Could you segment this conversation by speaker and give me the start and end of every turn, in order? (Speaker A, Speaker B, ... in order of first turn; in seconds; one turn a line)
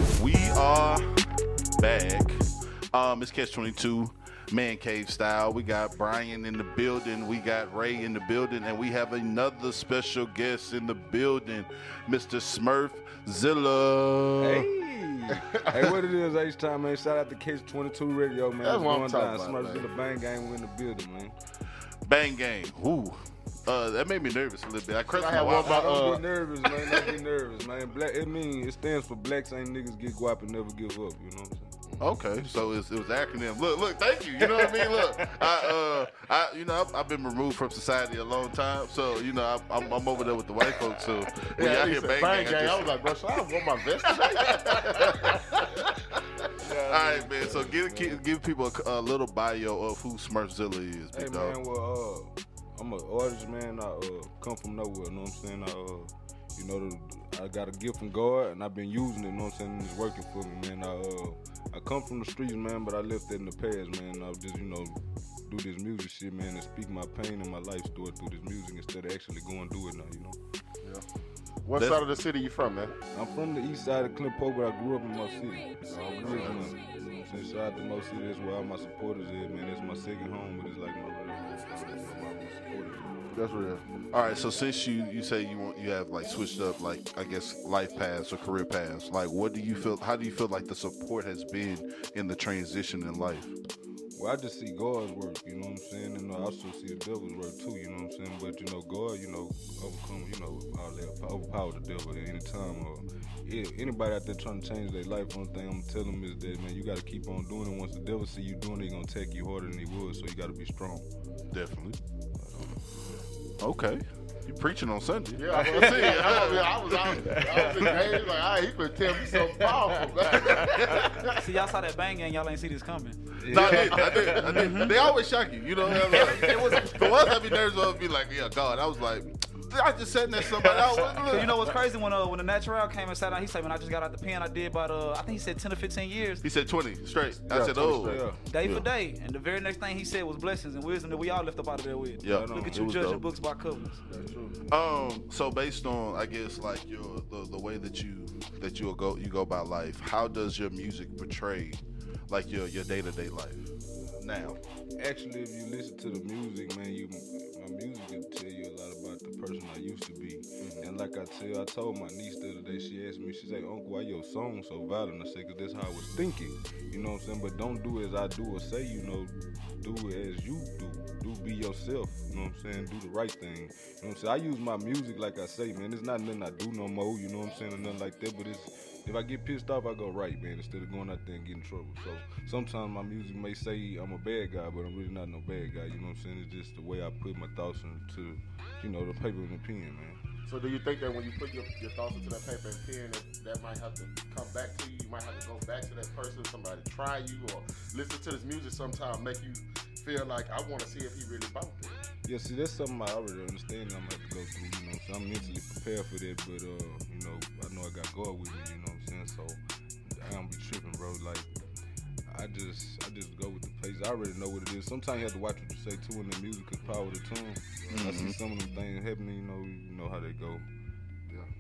Speaker A: 0.1-1.2
Speaker A: 1.8-14.7
Speaker B: 14.4-21.4
Speaker C: 15.3-15.9
Speaker C: 18.6-20.2
Speaker A: 22.0-25.9
Speaker C: 25.1-26.2
Speaker B: 25.3-31.8
Speaker A: 32.0-43.0
Speaker B: 32.4-32.7
Speaker B: 34.4-35.2
Speaker C: 41.5-45.4
Speaker A: 44.1-45.4
Speaker B: 46.6-48.2
Speaker A: 46.9-51.6
Speaker B: 51.1-70.4
Speaker C: 71.6-73.0
Speaker A: 71.8-72.0
Speaker B: 73.1-83.3
Speaker C: 75.9-76.7
Speaker A: 76.2-76.6
Speaker A: 81.6-82.0
Speaker C: 83.3-83.8
Speaker A: 84.1-93.5
Speaker B: 94.1-111.1
Speaker A: 111.5-112.0
Speaker B: 112.4-112.8
Speaker A: 113.6-118.0
Speaker C: 115.4-121.3
Speaker B: 115.5-116.1
Speaker B: 117.2-118.2
Speaker B: 119.3-121.2
Speaker A: 120.6-121.0
Speaker D: 121.3-123.3
Speaker B: 123.4-124.5
Speaker A: 123.5-131.8
Speaker C: 123.5-124.6
Speaker D: 124.4-125.0
Speaker D: 126.0-127.0
Speaker B: 126.2-126.7
Speaker D: 131.2-136.4
Speaker A: 136.4-138.8
Speaker C: 137.5-138.2
Speaker B: 138.0-138.4
Speaker D: 138.5-144.0
Speaker A: 142.2-143.2
Speaker B: 142.2-143.0
Speaker C: 144.1-144.6
Speaker A: 144.7-154.6
Speaker B: 155.0-190.2
Speaker A: 160.6-160.9
Speaker C: 190.4-202.0
Speaker B: 202.2-211.5
Speaker B: 212.3-220.7
Speaker A: 217.9-218.3